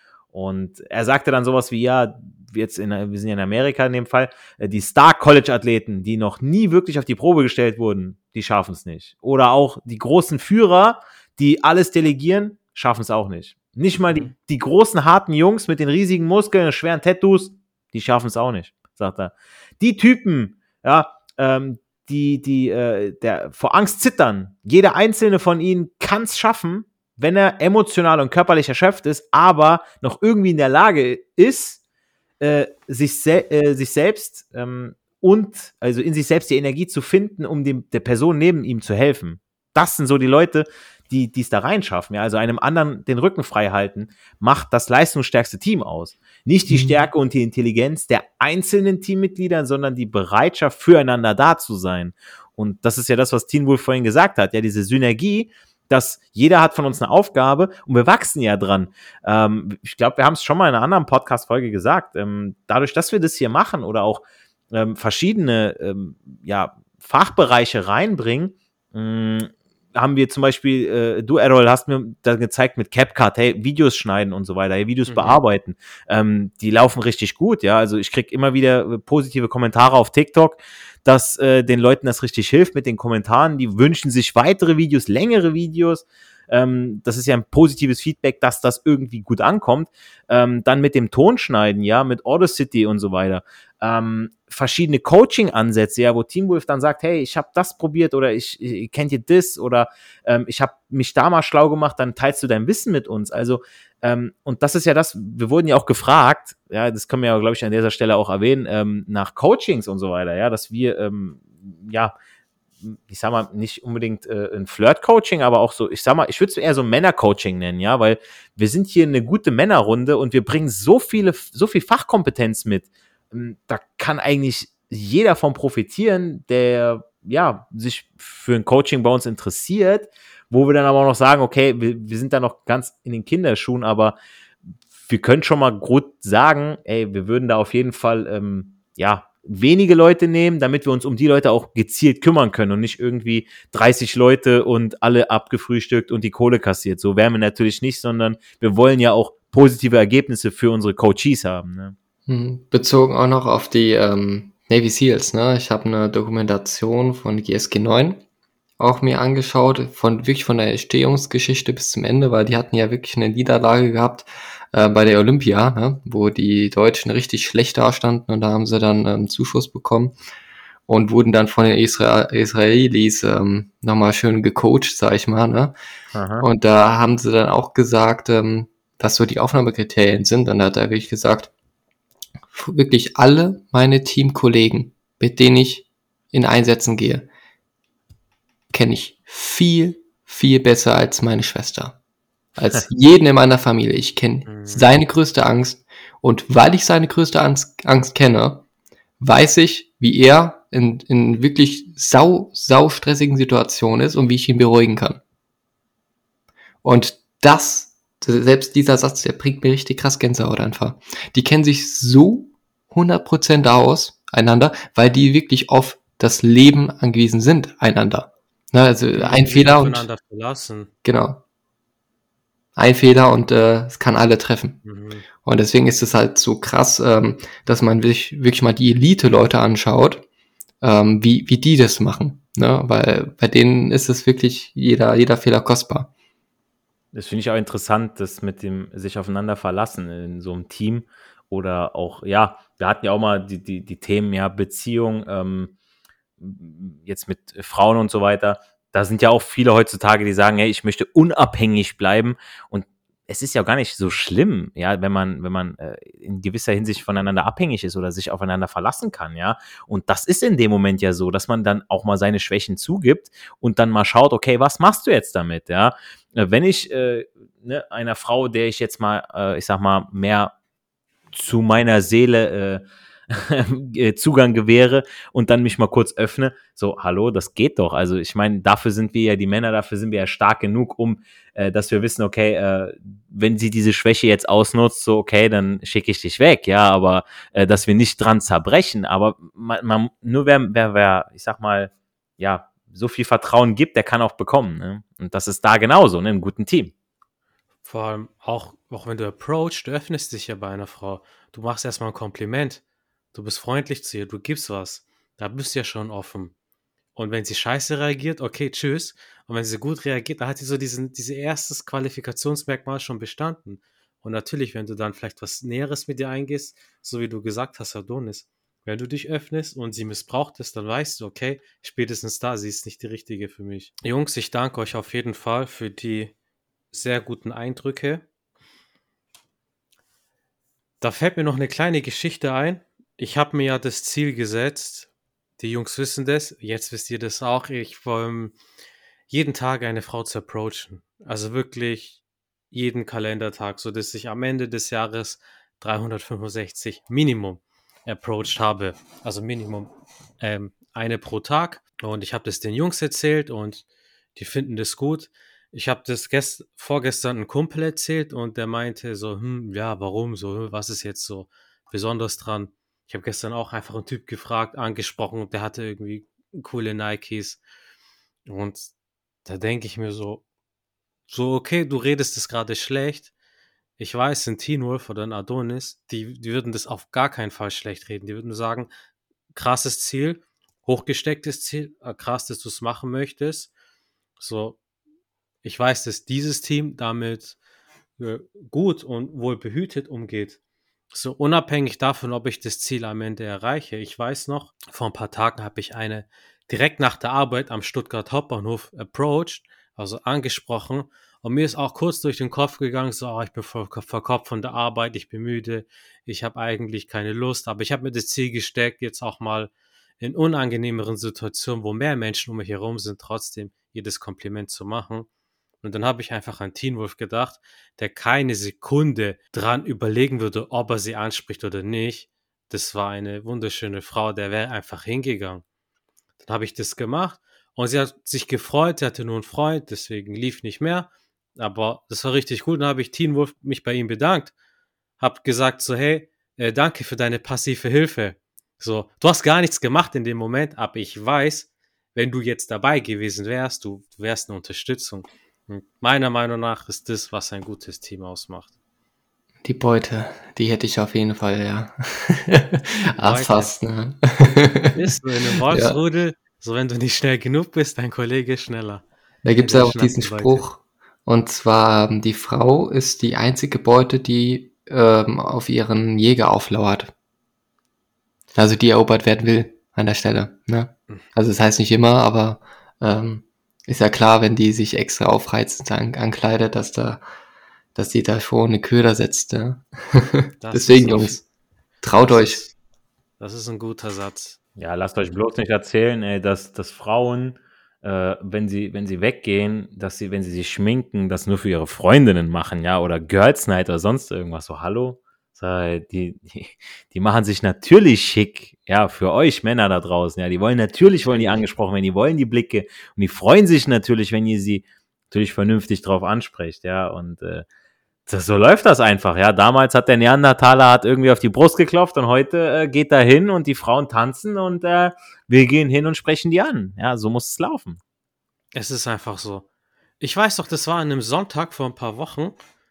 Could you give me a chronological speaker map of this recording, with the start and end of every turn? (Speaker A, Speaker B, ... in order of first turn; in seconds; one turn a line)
Speaker A: 0.3-31.8
Speaker B: 13.9-14.3
Speaker A: 32.4-112.1
Speaker B: 75.1-75.4
Speaker A: 112.8-134.2
Speaker A: 135.0-151.9
Speaker C: 152.2-158.2
Speaker C: 158.8-170.2
Speaker C: 170.9-175.7
Speaker A: 176.1-176.4
Speaker C: 176.4-181.5
Speaker C: 182.5-187.3
Speaker C: 188.7-192.0
Speaker C: 192.6-198.6
Speaker B: 194.4-194.9
Speaker C: 199.2-205.2
Speaker C: 206.8-220.1
Speaker B: 219.1-220.9
Speaker C: 221.0-221.4
Speaker C: 222.8-224.8
Speaker B: 224.8-225.2
Speaker C: 225.4-230.2
Speaker C: 230.8-236.1
Speaker A: 237.1-245.7
Speaker A: 246.4-270.5
Speaker A: 271.3-296.9
Speaker B: 297.8-302.8
Speaker B: 303.3-306.5
Speaker B: 307.1-326.3
Speaker B: 326.9-328.2
Speaker B: 331.0-338.6
Speaker B: 339.3-367.6
Speaker B: 368.4-368.9
Speaker B: 369.4-370.4
Speaker B: 371.3-373.3
Speaker B: 374.0-378.9
Speaker B: 379.5-383.7
Speaker B: 384.4-384.8
Speaker B: 385.6-387.6
Speaker B: 388.2-390.6
Speaker B: 391.1-415.3
Speaker B: 415.8-425.6
Speaker B: 426.4-434.5
Speaker B: 435.2-448.7
Speaker C: 449.6-455.0
Speaker B: 453.1-453.7
Speaker B: 454.9-459.0
Speaker C: 455.7-456.0
Speaker C: 459.4-467.1
Speaker B: 459.6-460.6
Speaker C: 468.5-477.2
Speaker C: 477.9-481.4
Speaker B: 480.6-481.4
Speaker C: 482.0-482.6
Speaker B: 482.1-482.7
Speaker B: 483.4-484.6
Speaker A: 484.8-507.6
Speaker B: 501.1-501.6
Speaker A: 508.3-518.0
Speaker B: 518.7-519.6
Speaker B: 520.2-522.5